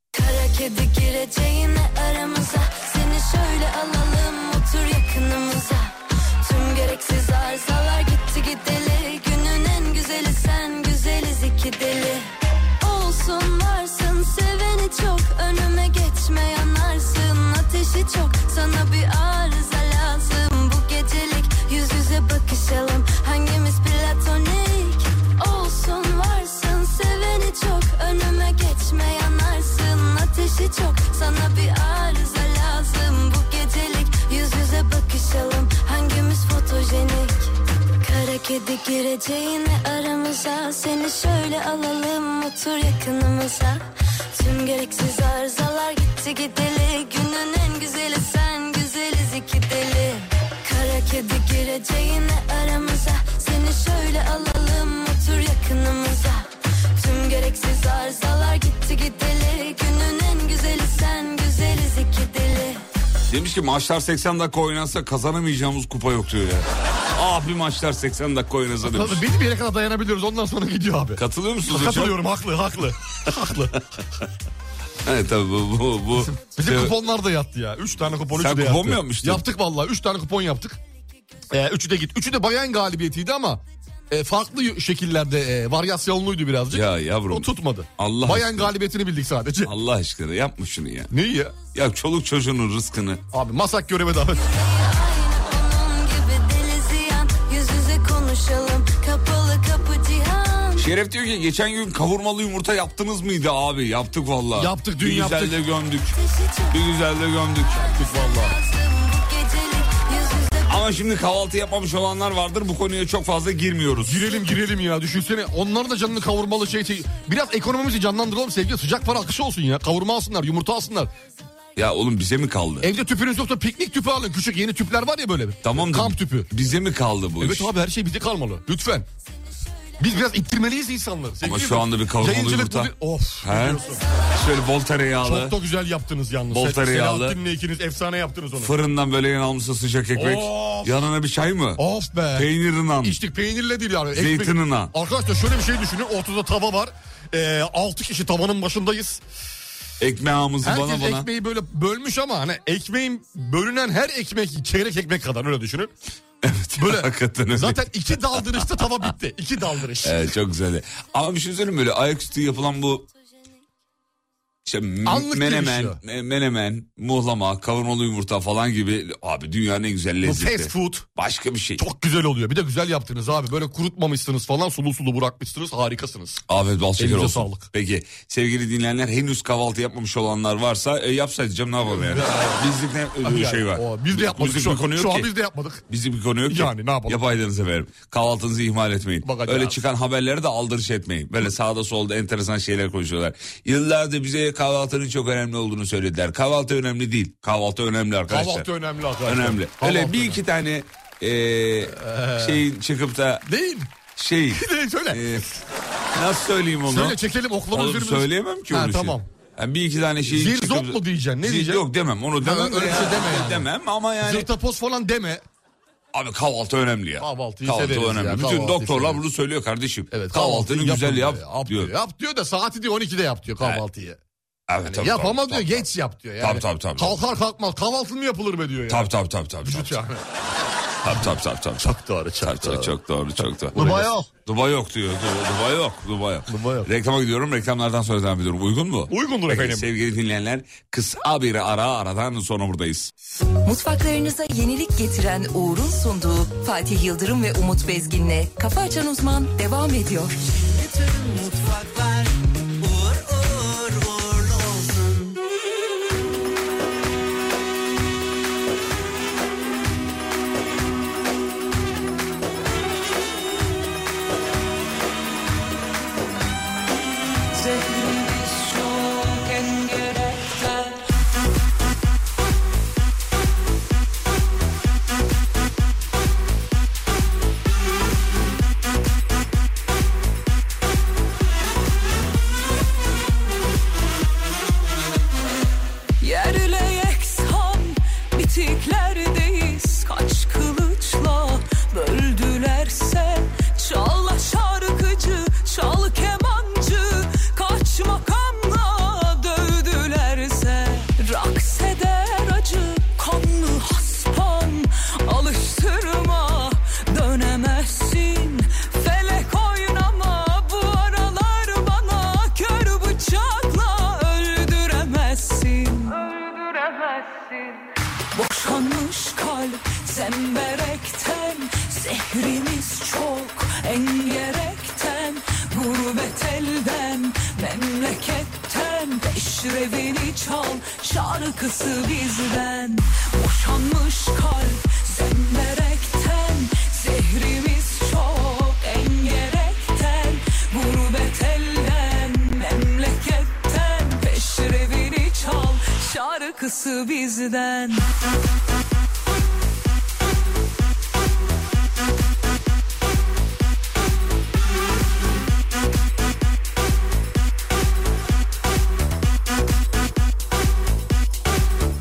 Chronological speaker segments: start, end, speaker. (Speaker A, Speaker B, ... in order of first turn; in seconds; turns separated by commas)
Speaker A: 0.1-62.8, Speaker B: 63.3-69.2, Speaker C: 68.8-73.8, Speaker B: 71.2-72.2, Speaker B: 75.0-77.0, Speaker C: 76.4-80.8, Speaker B: 78.3-79.4, Speaker C: 81.5-89.7, Speaker B: 86.7-88.7, Speaker B: 89.6-91.1, Speaker C: 91.1-91.5, Speaker B: 91.7-93.2, Speaker C: 93.3-94.4, Speaker A: 94.4-100.9, Speaker B: 100.8-106.2, Speaker C: 104.5-105.6, Speaker A: 106.1-106.8, Speaker B: 106.7-107.9, Speaker A: 107.7-110.8, Speaker C: 107.8-108.5, Speaker B: 110.7-114.4, Speaker C: 114.0-121.1, Speaker B: 121.8-122.9, Speaker C: 122.8-126.5, Speaker B: 125.6-127.7, Speaker C: 127.4-129.1, Speaker C: 130.0-134.0, Speaker B: 131.4-135.6, Speaker C: 135.2-138.7, Speaker B: 136.5-137.4, Speaker B: 138.6-141.8, Speaker C: 140.1-140.9, Speaker C: 141.8-142.5, Speaker B: 142.3-143.2, Speaker C: 143.0-149.2, Speaker B: 144.1-144.9, Speaker B: 150.0-151.3, Speaker C: 150.6-155.9, Speaker B: 156.4-158.6, Speaker C: 156.8-160.2, Speaker B: 160.0-163.1, Speaker B: 164.6-171.8, Speaker C: 165.1-166.0, Speaker C: 170.2-171.1, Speaker C: 171.8-176.4, Speaker B: 176.5-185.3, Speaker C: 177.0-177.7, Speaker C: 181.9-182.6, Speaker C: 183.2-185.8, Speaker B: 185.9-198.7, Speaker C: 186.5-187.2, Speaker C: 189.2-189.8, Speaker C: 198.3-200.4, Speaker B: 199.2-203.4, Speaker C: 201.8-202.6, Speaker C: 203.5-203.9, Speaker B: 204.1-205.5, Speaker C: 204.5-205.2, Speaker B: 206.1-207.2, Speaker C: 206.9-209.2, Speaker B: 207.7-214.5, Speaker C: 210.3-211.8, Speaker C: 212.4-213.7, Speaker C: 214.2-215.4, Speaker B: 216.1-221.9, Speaker C: 217.2-219.2, Speaker C: 220.1-224.2, Speaker B: 224.7-225.9, Speaker C: 224.9-229.1, Speaker B: 226.4-227.2, Speaker B: 228.9-230.0, Speaker C: 229.6-230.2, Speaker B: 231.0-243.1, Speaker C: 231.8-232.9, Speaker C: 233.7-234.2, Speaker C: 236.5-236.9, Speaker C: 239.1-239.9, Speaker D: 243.6-250.4, Speaker E: 250.7-255.3, Speaker F: 267.5-271.0, Speaker F: 286.2-317.7, Speaker F: 318.3-348.1